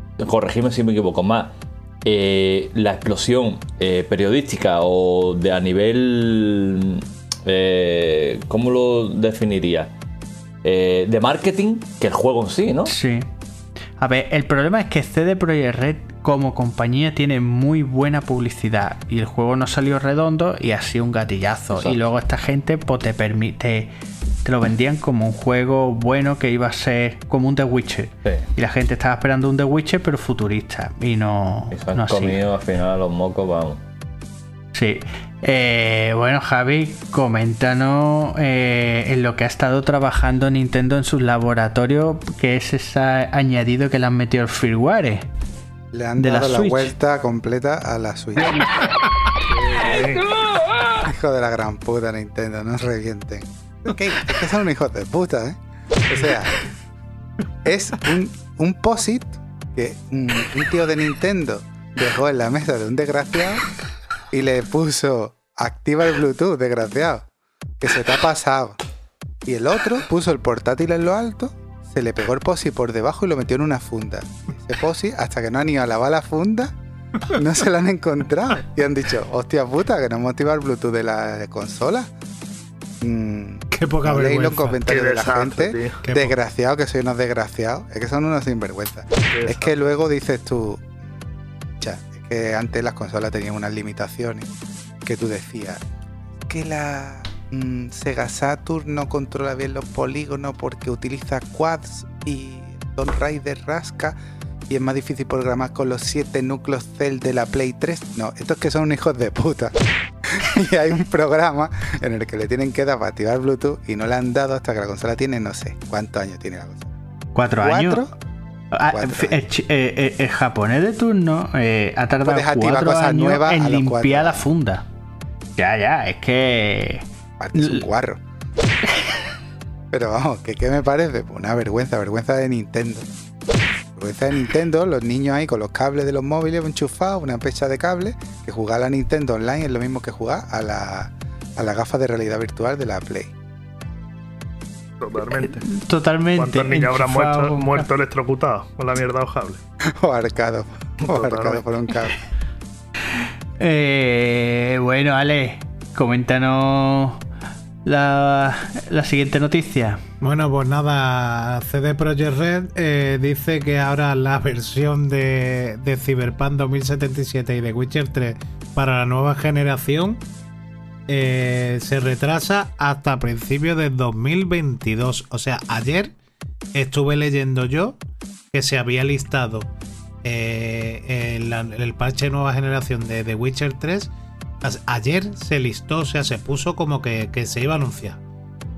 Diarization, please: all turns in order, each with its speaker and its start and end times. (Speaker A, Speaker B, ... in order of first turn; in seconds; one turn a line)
Speaker A: 0.2-1.5
Speaker A: 2.0-9.9
Speaker A: 10.6-12.9
Speaker B: 12.8-13.3
Speaker B: 14.0-23.9
Speaker A: 21.7-22.0
Speaker B: 24.4-32.4
Speaker A: 31.7-33.8
Speaker B: 34.7-45.2
Speaker C: 45.9-48.7
Speaker B: 46.2-46.9
Speaker D: 49.7-50.2
Speaker C: 49.7-50.2
Speaker C: 51.0-55.6
Speaker C: 56.1-56.6
Speaker C: 57.6-63.7
Speaker C: 64.3-67.2
Speaker C: 67.8-68.8
Speaker C: 69.5-76.7
Speaker C: 77.3-82.1
Speaker C: 83.0-91.1
Speaker E: 83.7-84.8
Speaker D: 84.9-86.0
Speaker E: 86.0-86.3
Speaker D: 89.3-89.7
Speaker C: 91.8-94.5
Speaker C: 95.0-95.8
Speaker C: 96.5-104.2
Speaker C: 104.7-116.9
Speaker B: 117.3-118.0
Speaker C: 117.6-118.1
Speaker B: 118.7-124.8
Speaker C: 118.9-119.4
Speaker C: 122.2-124.4
Speaker B: 125.6-127.8
Speaker C: 127.4-128.2
Speaker C: 129.9-133.1
Speaker C: 133.9-143.3
Speaker D: 145.0-145.6
Speaker B: 145.4-147.9
Speaker D: 146.4-149.6
Speaker C: 149.9-152.2
Speaker D: 151.0-151.6
Speaker B: 153.6-157.2
Speaker B: 157.8-160.0
Speaker E: 160.2-170.2
Speaker E: 171.1-176.1
Speaker E: 176.7-178.0
Speaker E: 178.5-179.7
Speaker E: 180.2-184.1
Speaker E: 184.6-188.2